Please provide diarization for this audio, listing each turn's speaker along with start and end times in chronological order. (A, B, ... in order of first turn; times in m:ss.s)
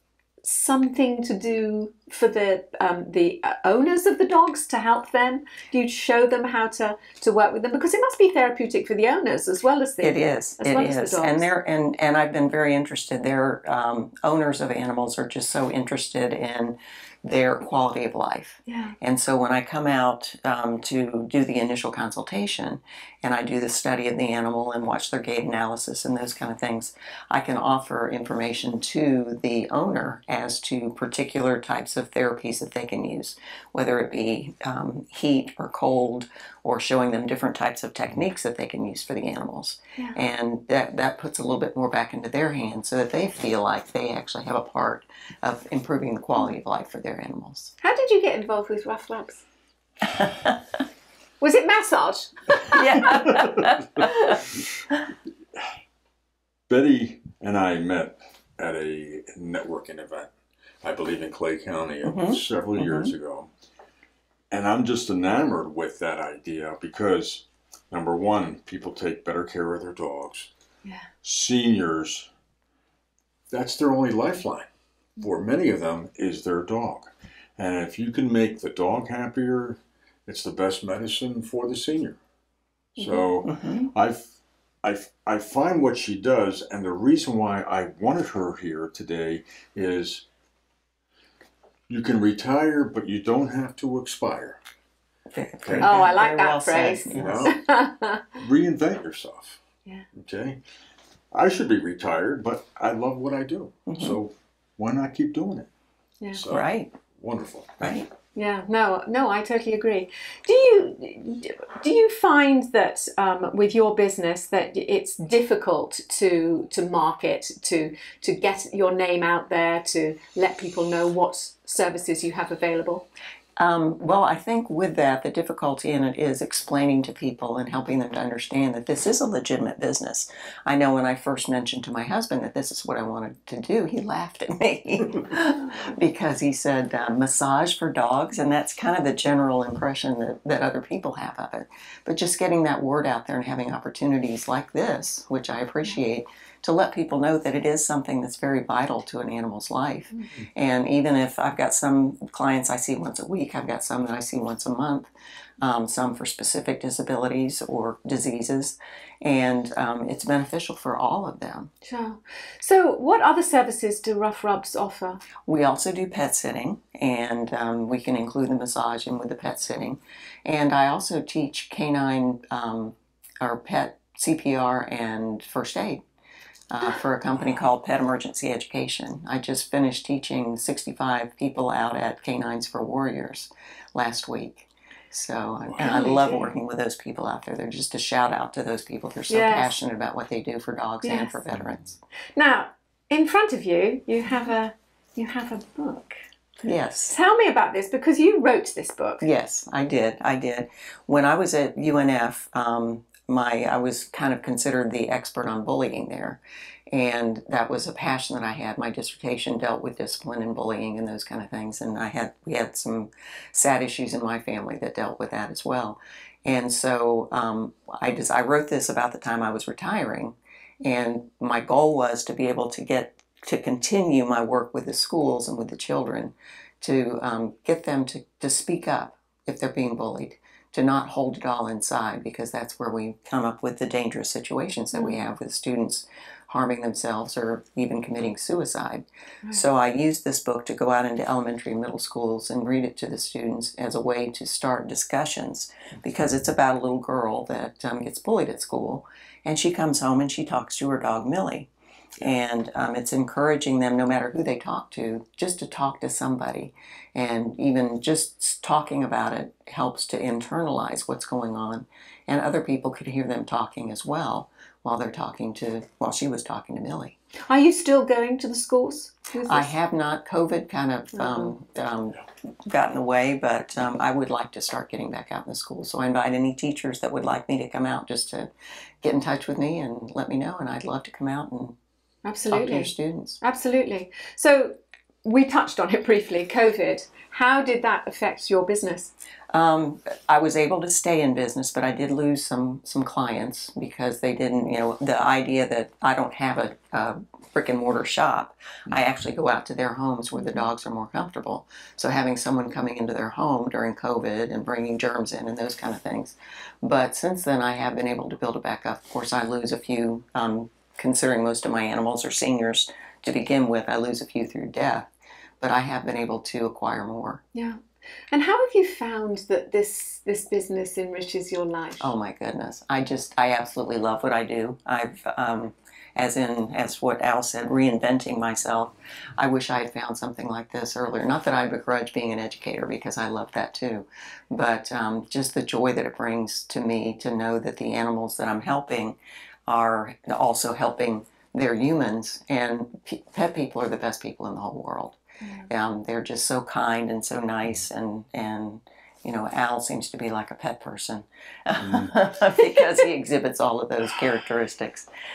0:00.4-0:11.4 A
0:10.0-0:47.7 B
0:18.7-0:18.9 A
0:47.8-0:49.4 A
0:51.4-0:53.3 A
0:52.7-0:54.3 B
0:53.3-0:53.7 C
0:54.0-0:54.4 A
0:56.7-1:00.3 C
1:00.8-1:03.5 C
1:02.0-1:03.1 B
1:04.5-1:10.5 C
1:11.2-1:12.3 C
1:13.5-1:22.2 C
1:23.0-1:24.3 C
1:23.0-1:23.2 A
1:23.5-1:23.9 B
1:24.8-1:30.2 C
1:31.9-1:34.6 C
1:35.3-1:37.5 B
1:35.6-1:36.0 C
1:35.8-1:38.3 A
1:37.1-1:37.6 C
1:38.4-1:39.6 C
1:40.1-1:40.6 C
1:41.3-1:45.7 C
1:43.9-1:44.2 B
1:46.3-1:48.0 C
1:46.5-1:46.9 B
1:47.8-1:48.0 B
1:48.3-2:03.1 A
2:03.6-2:41.7 B
2:41.8-2:45.2 A
2:45.4-2:56.0 B
2:56.7-3:12.0 B
3:05.8-3:06.5 A
3:09.3-3:09.7 A
3:11.0-3:11.4 A
3:12.4-3:16.2 A
3:16.6-3:17.2 B
3:17.0-3:19.2 A
3:19.2-4:27.1 B
4:27.5-4:29.7 A
4:29.4-4:38.5 B
4:31.2-4:31.5 A
4:39.0-4:41.7 B
4:42.2-4:49.1 A
4:42.5-4:43.4 B
4:49.5-5:15.1 B
5:15.6-5:17.4 B
5:17.5-5:22.1 A
5:22.0-5:39.2 B
5:39.7-5:45.2 B
5:45.4-5:45.7 A
5:45.7-5:55.1 B
5:51.8-5:52.1 C
5:52.6-5:53.0 A